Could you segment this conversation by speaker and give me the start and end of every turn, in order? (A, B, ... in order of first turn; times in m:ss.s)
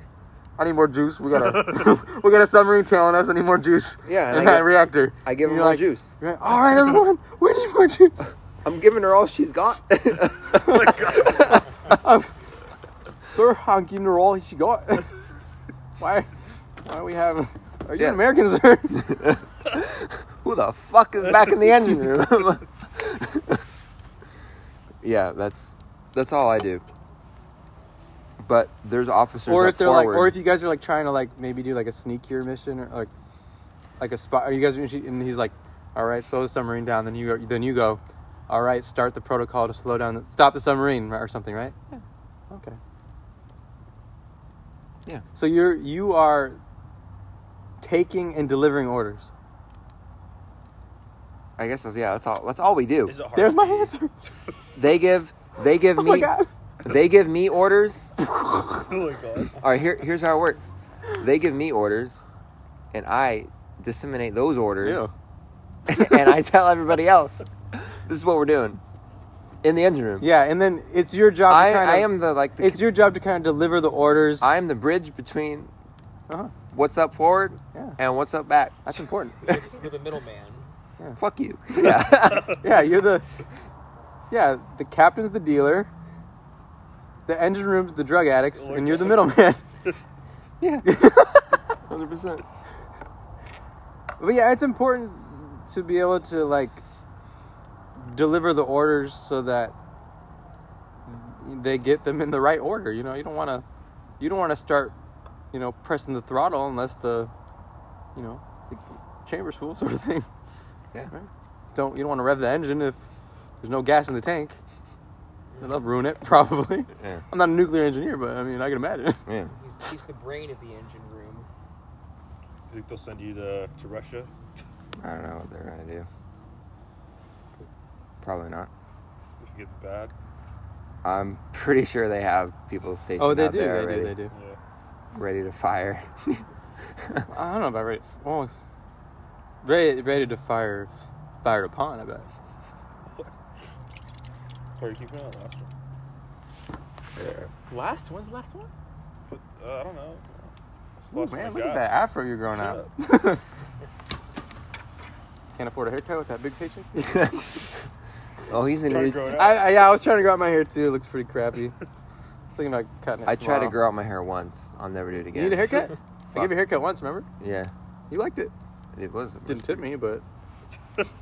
0:00.6-0:08.2 A
0:01.4-0:01.9 B
0:04.0-0:06.1 C
0:08.6-0:11.6 C
0:10.6-0:10.8 A
0:10.6-0:11.7 B
0:11.9-0:12.3 A
0:13.3-0:15.1 A
0:16.0-0:16.3 A
0:16.8-0:19.1 A
0:18.0-0:18.3 C
0:18.9-0:23.6 C
0:25.0-0:26.9 C
0:28.4-0:30.4 C
0:29.4-0:33.1 A
0:34.0-0:41.8 A
0:42.5-0:42.8 A
0:45.4-0:46.6 A
0:47.8-0:49.3 A
0:51.6-0:53.2 C
0:53.0-0:53.9 B
0:53.4-0:54.1 A
0:54.8-0:56.3 C
0:56.0-0:56.5 A
0:56.8-0:58.1 C
0:58.8-0:59.5 B
0:59.6-1:02.2 C
1:02.9-1:05.1 C
1:04.8-1:05.1 A
1:05.9-1:08.8 C
1:09.6-1:10.3 C
1:10.2-1:14.5 A
1:11.5-1:12.9 C
1:14.4-1:15.7 C
1:16.7-1:18.8 C
1:18.8-1:19.4 A
1:19.4-1:20.7 D
1:21.2-1:22.6 C
1:22.2-1:22.6 B
1:22.5-1:23.2 A
1:24.3-1:25.9 A
1:27.2-1:29.6 A
1:28.5-1:29.9 B
1:30.6-1:30.9 C
1:30.8-1:31.6 A
1:31.9-1:32.4 C
1:34.2-1:36.8 A
1:37.9-1:39.7 A
1:41.0-1:43.6 A
1:44.2-1:44.9 A
1:45.5-1:47.3 A
1:48.2-1:50.3 A
1:51.1-1:53.0 A
1:53.6-1:54.6 A
1:55.5-1:55.9 D
1:55.6-1:59.2 A
1:57.0-1:57.2 C
1:59.3-1:59.5 C
1:59.5-2:01.5 D
2:02.7-2:04.3 B
2:05.0-2:06.1 C
2:08.2-2:08.7 C
2:09.4-2:10.1 B
2:11.0-2:14.2 C
2:13.2-2:14.3 A
2:14.3-2:14.6 B
2:15.1-2:16.4 C
2:17.0-2:17.2 C
2:17.3-2:18.5 A
2:19.6-2:20.9 A
2:21.4-2:22.3 A
2:24.8-2:25.7 B
2:27.2-2:27.5 C
2:27.7-2:28.7 A
2:29.3-2:31.9 B
2:31.1-2:33.4 A
2:32.5-2:32.9 B
2:35.5-2:37.1 A
2:37.0-2:37.6 C
2:38.5-2:39.3 C
2:38.8-2:39.7 B
2:39.3-2:41.8 A
2:42.5-2:43.8 A
2:43.2-2:46.6 C
2:45.4-2:47.3 A
2:47.4-2:47.7 C
2:48.1-2:48.5 A
2:48.9-2:49.9 C
2:49.4-2:50.2 A